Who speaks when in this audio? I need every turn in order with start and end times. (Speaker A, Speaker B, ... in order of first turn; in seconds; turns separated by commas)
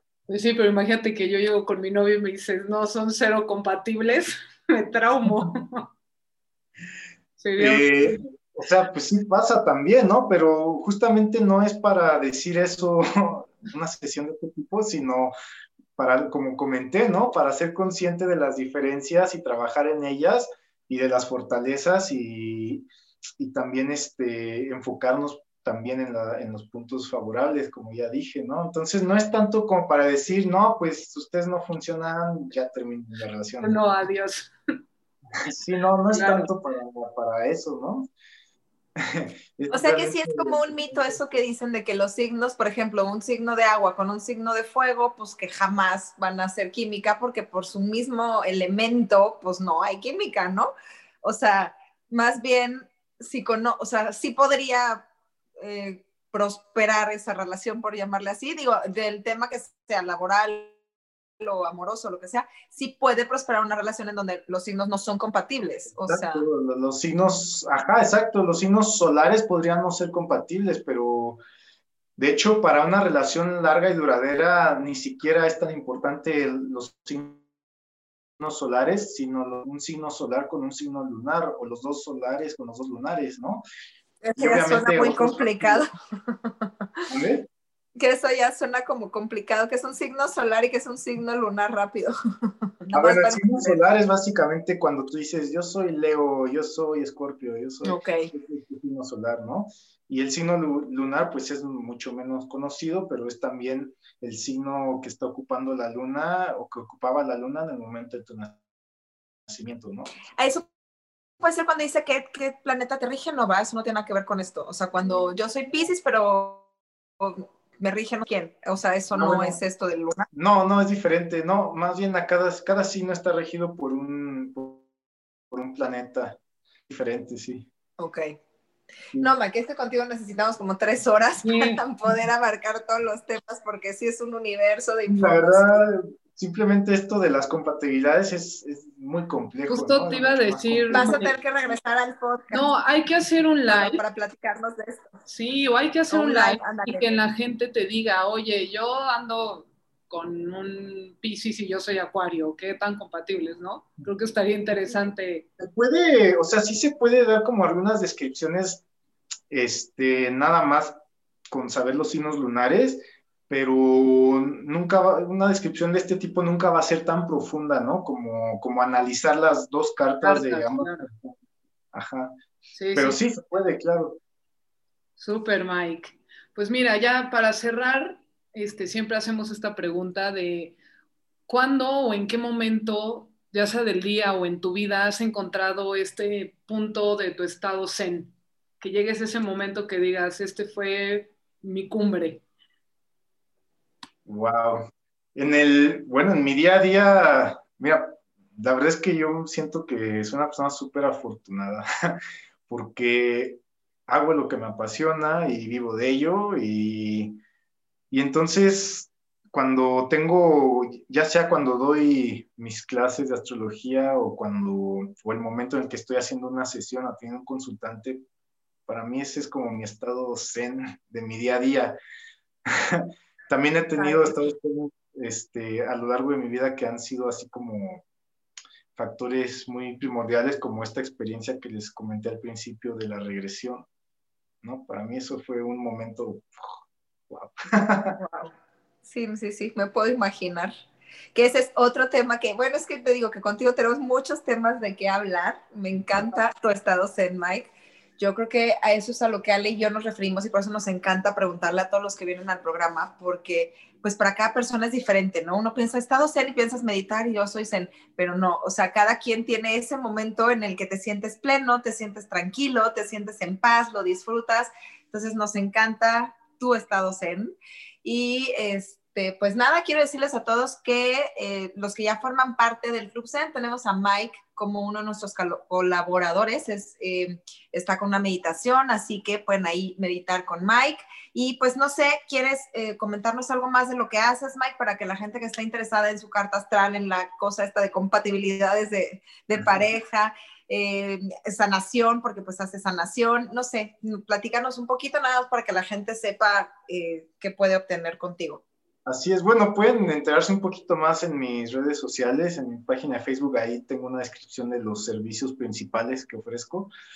Speaker A: 0.3-5.9, Speaker A: 7.4-8.2, Speaker B: 7.6-15.3, Speaker B: 16.0-22.9, Speaker B: 23.4-34.0, Speaker A: 33.6-34.5, Speaker B: 35.4-38.1, Speaker A: 36.1-36.5, Speaker B: 39.0-41.4, Speaker C: 39.7-50.7, Speaker C: 51.2-55.1, Speaker C: 55.6-60.7, Speaker C: 61.4-66.5, Speaker B: 66.0-71.4, Speaker B: 72.2-77.4, Speaker B: 78.4-83.6, Speaker C: 84.2-86.7, Speaker B: 84.4-85.8, Speaker B: 87.1-87.5, Speaker C: 88.0-92.1, Speaker C: 92.8-93.8, Speaker B: 92.9-108.6, Speaker C: 97.8-98.3, Speaker B: 109.5-110.1, Speaker C: 110.4-110.7, Speaker C: 111.4-116.7, Speaker C: 117.2-120.3, Speaker B: 119.1-119.6, Speaker B: 120.3-124.9, Speaker B: 125.5-127.7, Speaker C: 128.0-128.3, Speaker C: 129.2-135.8, Speaker A: 131.4-131.8, Speaker B: 135.1-141.4, Speaker A: 139.7-141.3, Speaker C: 140.9-142.7, Speaker A: 142.5-144.0, Speaker C: 143.7-145.1, Speaker A: 145.3-155.5, Speaker C: 146.1-147.2, Speaker B: 155.6-158.8, Speaker B: 159.5-161.0, Speaker B: 161.5-171.4, Speaker A: 170.2-171.1, Speaker B: 171.9-172.3, Speaker A: 172.8-173.2, Speaker B: 172.9-174.2, Speaker A: 175.2-180.8, Speaker A: 181.5-192.4, Speaker B: 194.3-202.2, Speaker B: 202.7-207.4, Speaker B: 208.1-218.2, Speaker B: 218.9-222.0, Speaker B: 222.7-228.0, Speaker C: 224.0-224.5, Speaker B: 229.0-233.9, Speaker B: 234.6-236.8, Speaker B: 237.3-238.2, Speaker C: 238.2-238.5, Speaker C: 239.1-240.7, Speaker C: 241.3-298.6, Speaker B: 289.6-289.8, Speaker B: 299.1-306.9